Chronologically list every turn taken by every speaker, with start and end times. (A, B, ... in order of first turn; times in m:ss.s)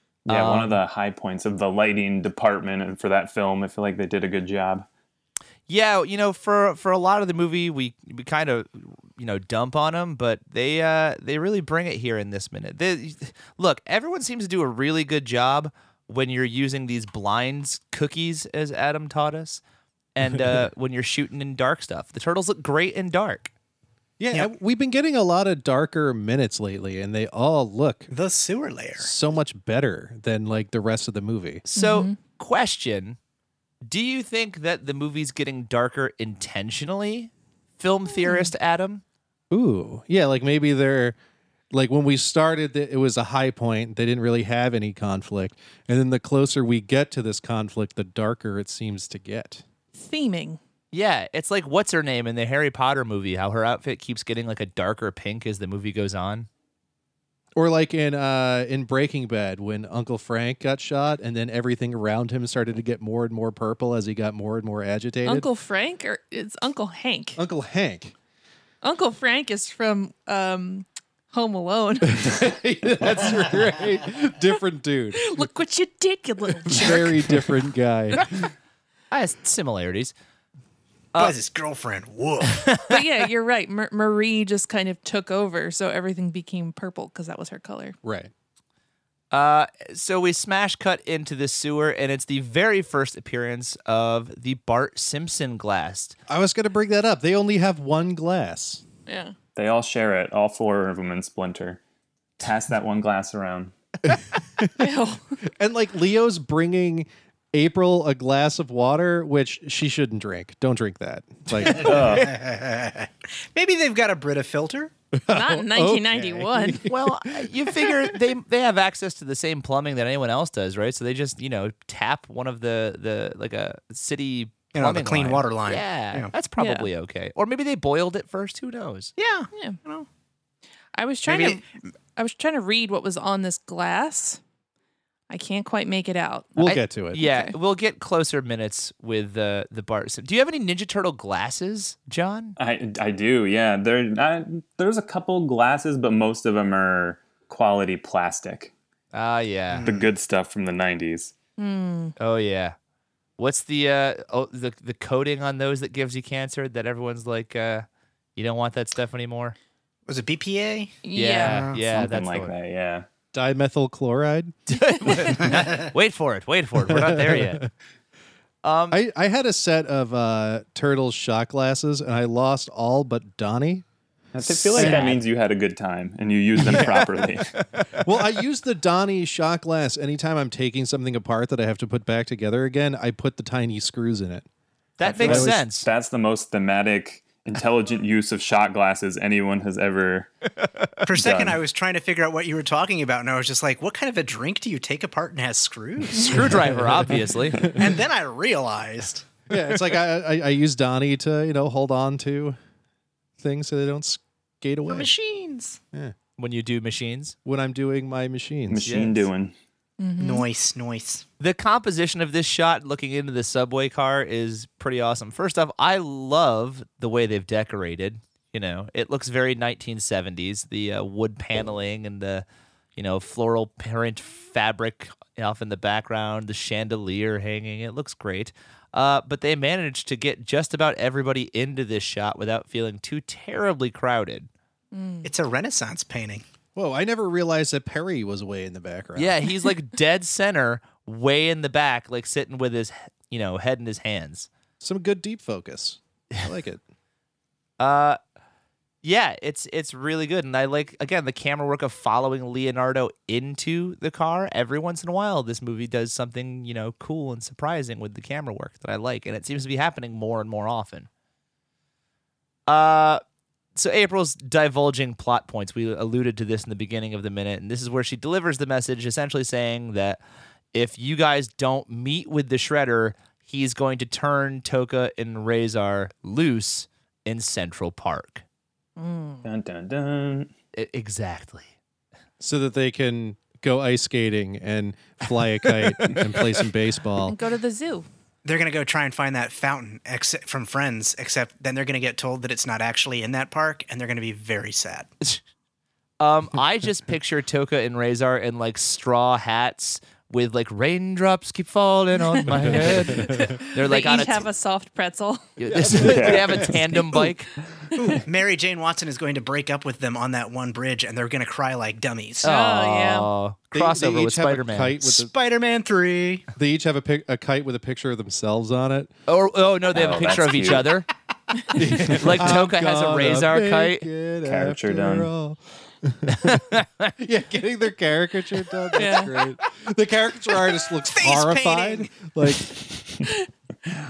0:00.2-0:04.9 A
0:00.3-0:00.8 B
0:05.7-0:19.6 B
0:20.1-0:23.5 B
0:24.2-0:28.1 C
0:28.1-0:29.1 D
0:29.0-0:31.6 C
0:31.7-0:33.2 B
0:31.7-0:32.2 E
0:33.8-0:39.0 B
0:38.2-0:38.5 E
0:39.5-0:41.2 C
0:41.7-0:49.6 C
0:49.9-0:50.6 E
0:50.9-0:56.5 B
0:57.6-1:05.5 C
1:05.2-1:07.4 E
1:07.4-1:08.1 C
1:08.8-1:12.3 E
1:12.0-1:15.4 C
1:15.1-1:17.3 E
1:16.7-1:18.3 C
1:19.1-1:20.1 B
1:21.2-1:22.8 D
1:22.6-1:23.0 B
1:22.8-1:28.0 E
1:28.0-1:28.3 C
1:29.3-1:36.2 B
1:36.3-1:38.8 C
1:39.1-1:39.3 E
1:39.6-1:41.8 A
1:42.4-1:43.7 A
1:44.0-1:44.9 C
1:44.8-1:45.2 E
1:45.4-1:52.1 C
1:51.7-1:52.3 A
1:51.7-1:54.9 D
1:55.2-1:58.1 C
1:55.3-1:56.8 E
1:56.8-2:09.1 B
2:04.7-2:06.3 D
2:06.6-2:06.9 E
2:09.2-2:10.1 D
2:09.5-2:09.8 E
2:10.9-2:11.6 E
2:11.2-2:11.6 D
2:12.2-2:14.4 E
2:15.3-2:17.5 E
2:16.6-2:17.2 C
2:16.6-2:22.6 B
2:22.6-2:28.7 A
2:29.1-2:29.9 B
2:29.7-2:30.1 D
2:29.8-2:31.3 A
2:31.6-2:32.1 E
2:32.2-2:32.8 B
2:33.4-2:37.8 B
2:38.4-2:39.6 B
2:40.1-2:41.8 D
2:41.0-2:41.7 E
2:41.1-2:42.5 B
2:41.8-2:43.1 A
2:43.3-2:44.6 C
2:44.7-2:47.6 B
2:45.0-2:45.5 E
2:46.8-2:47.7 C
2:48.6-2:49.0 B
2:48.9-2:53.8 C
2:54.3-2:57.5 A
2:54.4-2:55.2 C
2:54.7-2:55.2 B
2:56.6-2:57.3 C
2:57.6-2:58.0 B
2:57.9-3:04.4 C
3:05.0-3:05.9 B
3:05.0-3:05.6 C
3:05.0-3:10.3 A
3:10.6-3:10.9 B
3:11.0-3:16.7 D
3:11.2-3:11.6 A
3:16.2-3:17.7 B
3:16.8-3:17.9 C
3:17.6-3:19.3 D
3:19.5-3:22.6 C
3:23.4-3:25.1 C
3:24.9-3:25.8 D
3:26.4-3:27.4 B
3:27.4-3:29.2 C
3:28.7-3:29.5 A
3:28.8-3:29.2 B
3:30.0-3:30.5 E
3:30.2-3:31.2 D
3:31.4-3:42.4 B
3:43.0-3:54.5 B
3:54.9-3:55.3 E
3:55.2-3:56.4 D
3:56.7-3:59.4 C
3:59.2-4:04.5 B
4:04.8-4:06.8 C
4:07.8-4:08.2 B
4:09.0-4:21.1 B
4:22.7-4:23.2 B
4:23.8-4:30.2 B
4:30.7-4:38.4 B
4:39.0-4:39.5 E
4:39.4-4:40.5 A
4:40.7-4:41.7 B
4:42.4-4:47.4 C
4:45.6-4:46.3 B
4:47.2-4:48.1 E
4:48.4-4:55.1 D
4:56.2-5:04.5 B
5:02.4-5:05.6 E
5:02.5-5:03.6 C
5:05.6-5:07.5 B
5:05.7-5:07.3 C
5:06.1-5:06.7 A
5:07.9-5:08.2 E
5:08.0-5:12.5 D
5:12.4-5:13.3 E
5:12.4-5:15.0 B
5:13.7-5:15.3 C
5:15.0-5:16.5 D
5:16.5-5:19.1 C
5:19.3-5:21.1 B
5:19.9-5:20.9 A
5:21.7-5:26.6 C
5:22.1-5:24.1 B
5:24.4-5:25.3 A
5:26.3-5:27.1 B
5:27.2-5:33.2 C
5:29.0-5:29.4 E
5:31.1-5:32.1 D